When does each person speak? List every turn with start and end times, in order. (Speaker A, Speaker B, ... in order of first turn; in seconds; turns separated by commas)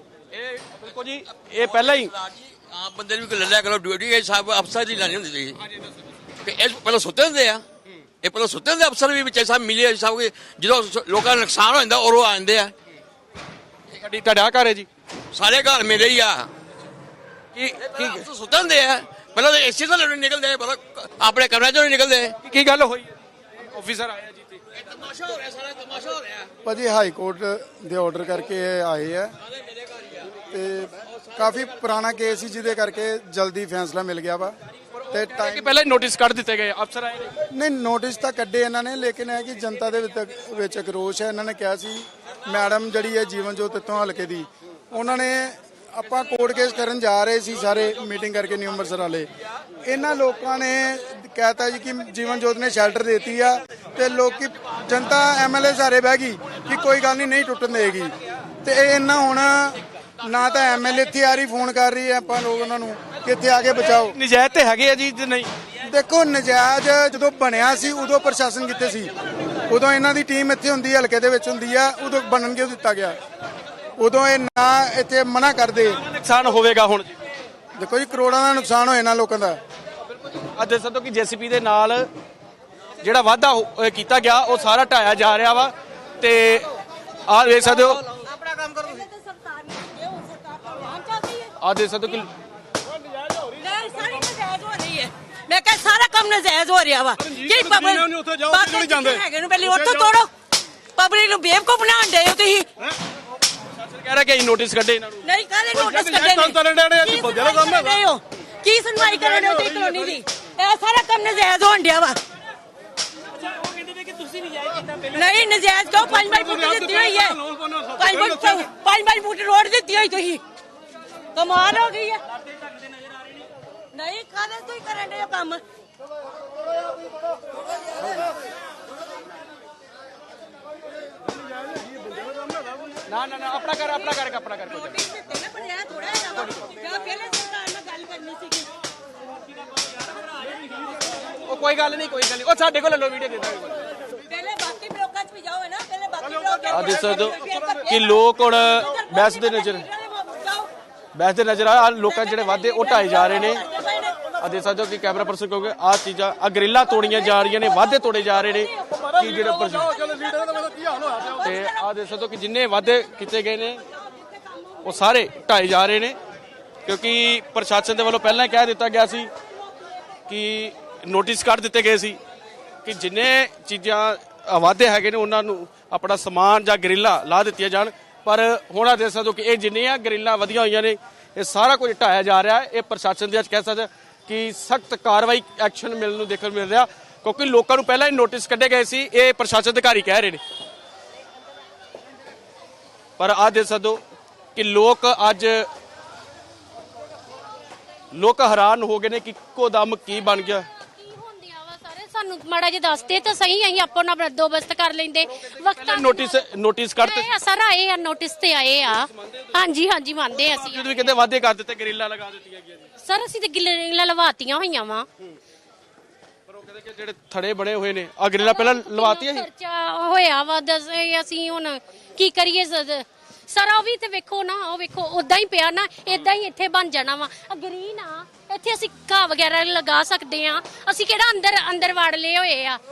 Speaker A: 0.3-2.1, Speaker B: 1.6-5.6, Speaker B: 6.4-7.6, Speaker B: 8.2-12.7, Speaker A: 13.9-14.9, Speaker B: 15.3-16.5, Speaker A: 17.6-18.3, Speaker B: 17.7-22.4, Speaker A: 22.4-23.2, Speaker A: 23.7-24.6, Speaker C: 26.6-29.3, Speaker C: 30.5-34.5, Speaker A: 35.0-37.3, Speaker C: 35.1-35.7, Speaker C: 37.5-49.3, Speaker C: 49.8-64.2, Speaker A: 64.1-65.5, Speaker C: 65.9-69.1, Speaker C: 69.7-73.2, Speaker C: 74.0-76.0, Speaker A: 76.0-77.1, Speaker C: 77.8-79.6, Speaker A: 80.2-82.1, Speaker A: 83.0-86.7, Speaker A: 87.3-88.0, Speaker D: 88.1-91.5, Speaker A: 91.6-92.3, Speaker D: 93.6-100.3, Speaker D: 101.0-102.7, Speaker A: 103.8-105.3, Speaker D: 105.2-112.2, Speaker D: 115.0-120.4, Speaker D: 121.3-122.2, Speaker D: 123.9-125.6, Speaker A: 133.1-135.0, Speaker D: 134.8-138.7, Speaker A: 136.3-136.7, Speaker A: 141.4-143.9, Speaker D: 144.2-150.7, Speaker A: 146.7-149.9, Speaker A: 151.2-153.7, Speaker D: 152.0-154.3, Speaker A: 154.4-159.9, Speaker D: 159.0-161.8, Speaker A: 161.4-163.8, Speaker D: 164.1-164.5, Speaker A: 164.8-166.2, Speaker A: 166.8-169.3, Speaker A: 170.3-172.2, Speaker A: 172.8-190.4, Speaker A: 193.2-194.0, Speaker A: 194.6-195.7, Speaker A: 198.1-200.7, Speaker E: 200.7-206.5, Speaker A: 205.3-207.3, Speaker E: 207.0-211.0, Speaker A: 208.9-209.6, Speaker A: 210.3-212.9, Speaker E: 213.0-215.1, Speaker A: 216.5-219.5, Speaker E: 218.4-232.8